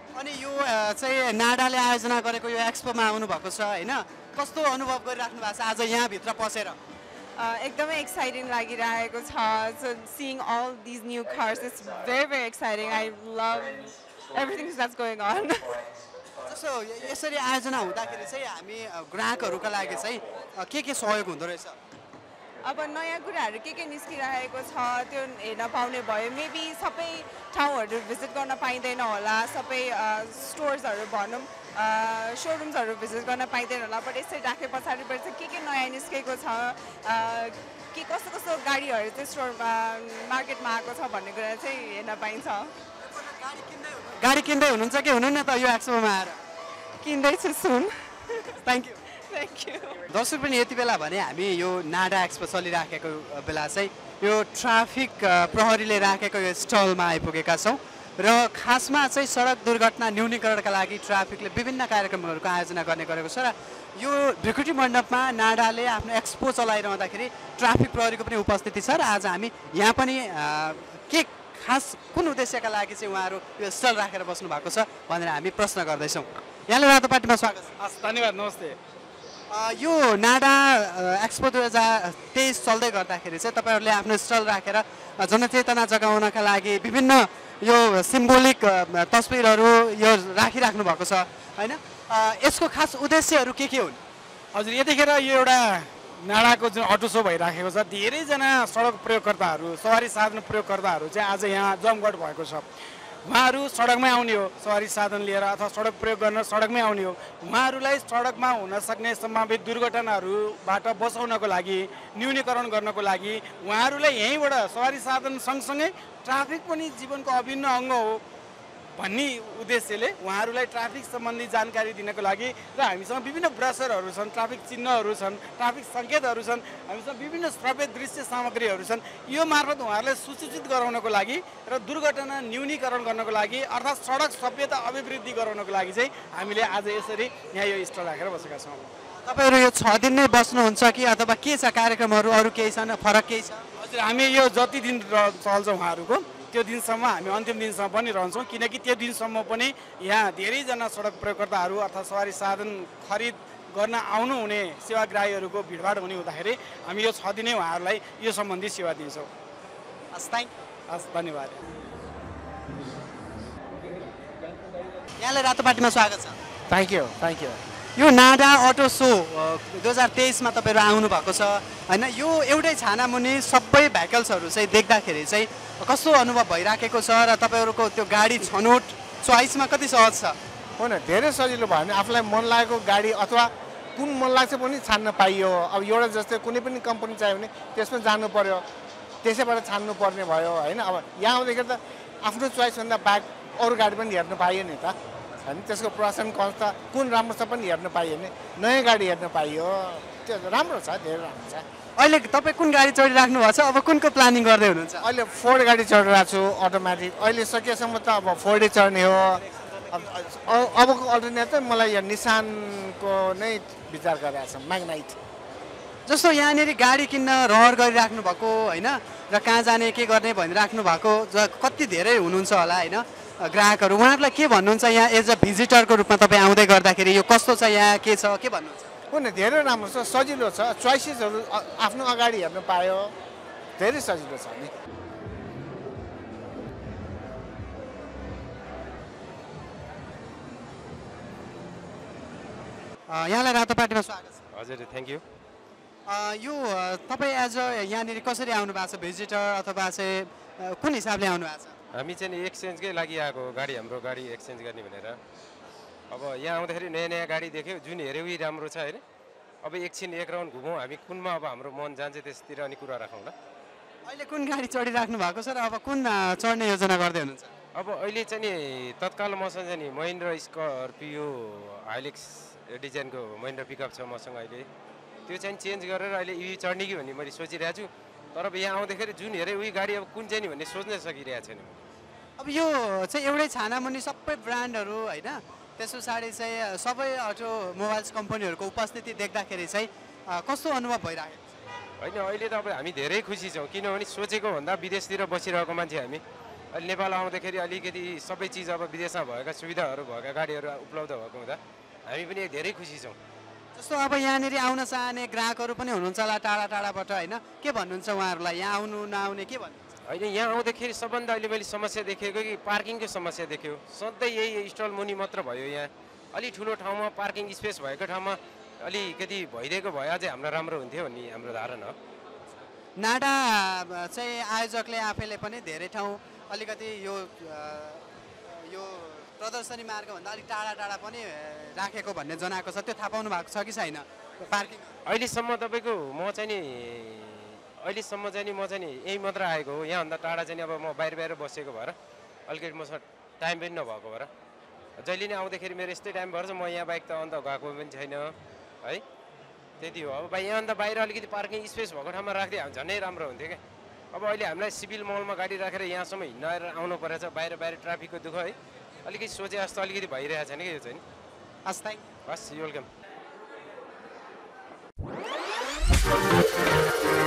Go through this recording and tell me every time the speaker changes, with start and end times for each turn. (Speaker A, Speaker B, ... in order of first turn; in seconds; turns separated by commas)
Speaker A: 0.1-6.8, Speaker B: 7.4-15.8, Speaker A: 16.4-21.8, Speaker B: 22.6-42.7, Speaker A: 43.0-46.4, Speaker B: 47.0-48.6, Speaker A: 48.6-49.0, Speaker B: 49.3-50.0, Speaker A: 50.1-77.7, Speaker C: 77.8-78.8, Speaker A: 79.5-94.0, Speaker C: 94.5-102.6, Speaker C: 103.2-118.2, Speaker C: 119.0-138.8, Speaker A: 139.2-143.6, Speaker C: 143.8-159.3, Speaker A: 160.1-160.5, Speaker C: 160.9-161.5, Speaker A: 165.2-166.4, Speaker D: 166.7-167.6, Speaker A: 168.0-180.4, Speaker D: 180.8-188.6, Speaker D: 189.2-201.6, Speaker A: 202.0-205.1, Speaker D: 205.0-215.2, Speaker A: 216.1-228.9, Speaker D: 229.1-233.1, Speaker D: 233.8-234.7, Speaker A: 243.1-244.4, Speaker E: 244.5-245.2, Speaker A: 246.1-251.8, Speaker E: 251.9-255.2, Speaker E: 256.1-259.0, Speaker E: 259.6-263.3, Speaker A: 264.1-267.5, Speaker E: 267.7-274.7, Speaker E: 275.3-281.8, Speaker A: 282.4-291.5, Speaker E: 292.0-296.2, Speaker E: 296.7-303.2, Speaker A: 303.7-309.8, Speaker E: 310.1-321.9, Speaker A: 323.0-334.9, Speaker E: 335.1-341.9, Speaker E: 342.5-344.3, Speaker E: 345.0-349.0, Speaker E: 349.8-353.6, Speaker E: 354.1-361.0, Speaker A: 361.6-362.0, Speaker E: 362.2-362.9